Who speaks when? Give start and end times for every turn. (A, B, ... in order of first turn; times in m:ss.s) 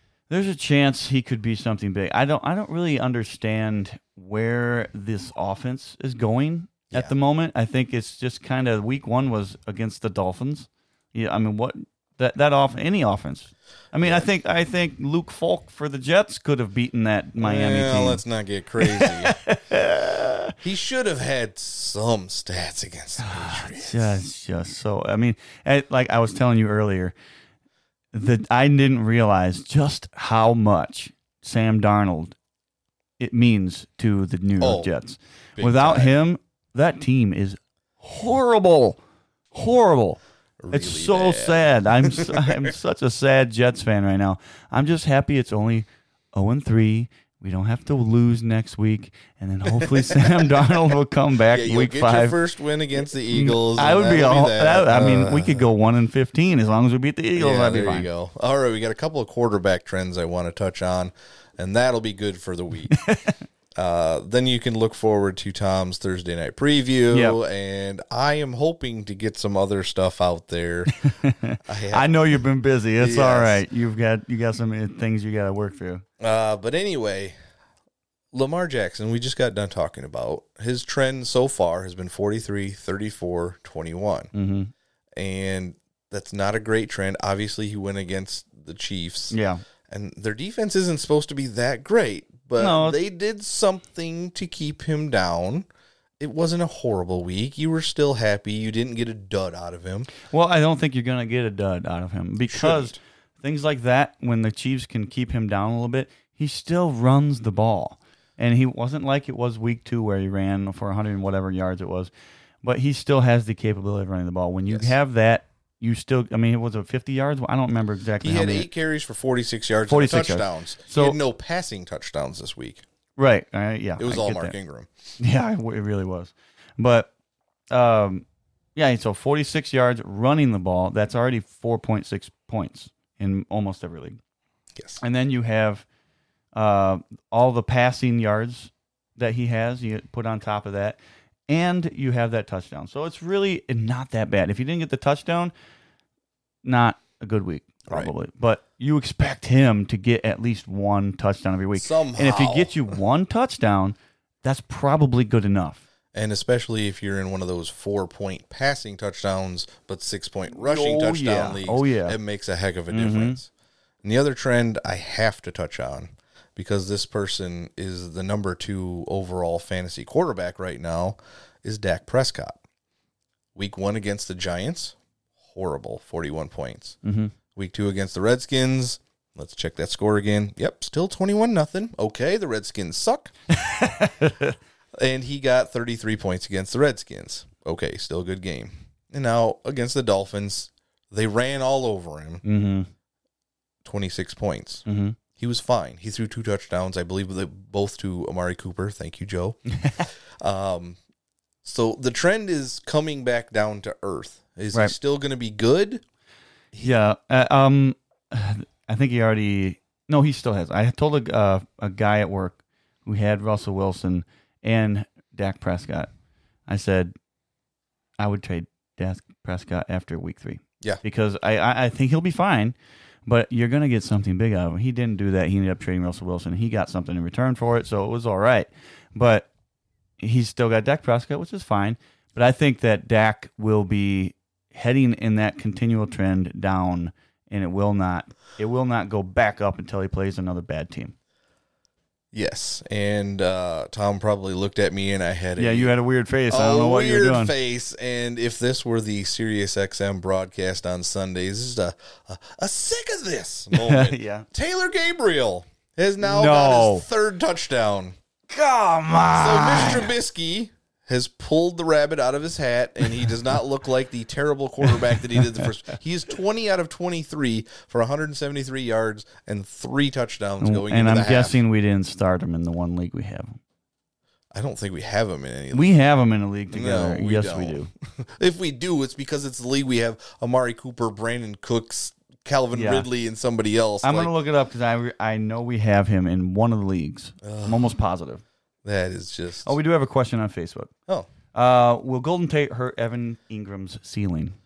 0:00.3-0:18.2 A
0:14.0-0:14.3 B
0:17.4-0:19.4 B
0:18.8-0:20.5 A
0:20.6-0:24.2 B
0:23.2-0:27.2 A
0:28.1-0:32.4 A
0:33.2-0:39.0 A
0:34.6-0:34.9 B
0:35.6-0:36.1 B
0:39.5-0:40.2 A
0:40.6-0:42.7 B
0:40.7-0:52.4 A
0:49.8-0:50.9 B
0:51.5-0:55.7 B
0:53.3-0:58.1 A
0:57.4-1:03.0 B
1:02.9-1:03.4 A
1:03.8-1:11.1 B
1:07.1-1:07.4 A
1:11.0-1:16.0 A
1:11.6-1:12.1 B
1:13.0-1:13.6 B
1:16.2-1:17.4 B
1:18.3-1:24.3 B
1:24.3-1:24.7 A
1:25.2-1:29.4 B
1:29.3-1:29.6 A
1:29.9-1:35.7 B
1:32.6-1:33.0 A
1:36.2-1:40.1 B
1:40.3-1:52.1 A
1:42.4-1:43.0 B
1:52.6-1:58.7 A
1:54.7-1:54.9 B
1:58.2-2:02.8 B
1:59.9-2:01.2 A
2:03.2-2:04.5 A
2:04.0-2:04.9 B
2:05.2-2:07.1 A
2:07.7-2:14.2 A
2:15.0-2:15.9 A
2:16.5-2:25.5 A
2:26.6-2:35.8 A
2:31.7-2:32.8 B
2:36.1-2:43.5 B
2:40.5-2:42.2 A
2:42.9-2:43.4 A
2:44.0-2:52.6 B
2:53.6-2:55.0 B
2:55.5-2:57.0 B
2:57.0-2:57.3 A
2:57.6-3:03.3 B
3:03.5-3:04.6 A
3:05.0-3:12.4 B
3:12.4-3:12.9 A
3:13.8-3:14.8 B
3:14.9-3:15.2 A
3:15.4-3:21.0 B
3:21.6-3:26.0 B
3:26.8-3:36.1 A
3:36.7-3:37.1 A
3:38.2-3:49.5 A
3:50.2-4:01.2 A
4:02.3-4:06.0 B
4:05.6-4:07.5 A
4:06.5-4:18.2 B
4:13.7-4:14.5 A
4:16.2-4:17.0 A
4:18.5-4:20.1 A
4:19.4-4:31.6 B
4:24.8-4:25.7 A
4:30.6-4:33.6 A
4:34.5-4:36.0 B
4:35.7-4:37.9 A
4:36.7-4:44.3 B
4:42.7-4:43.1 A
4:44.0-4:48.4 A
4:47.4-4:47.9 B
4:48.8-4:49.7 B
4:49.6-4:50.9 A
4:51.5-4:54.6 A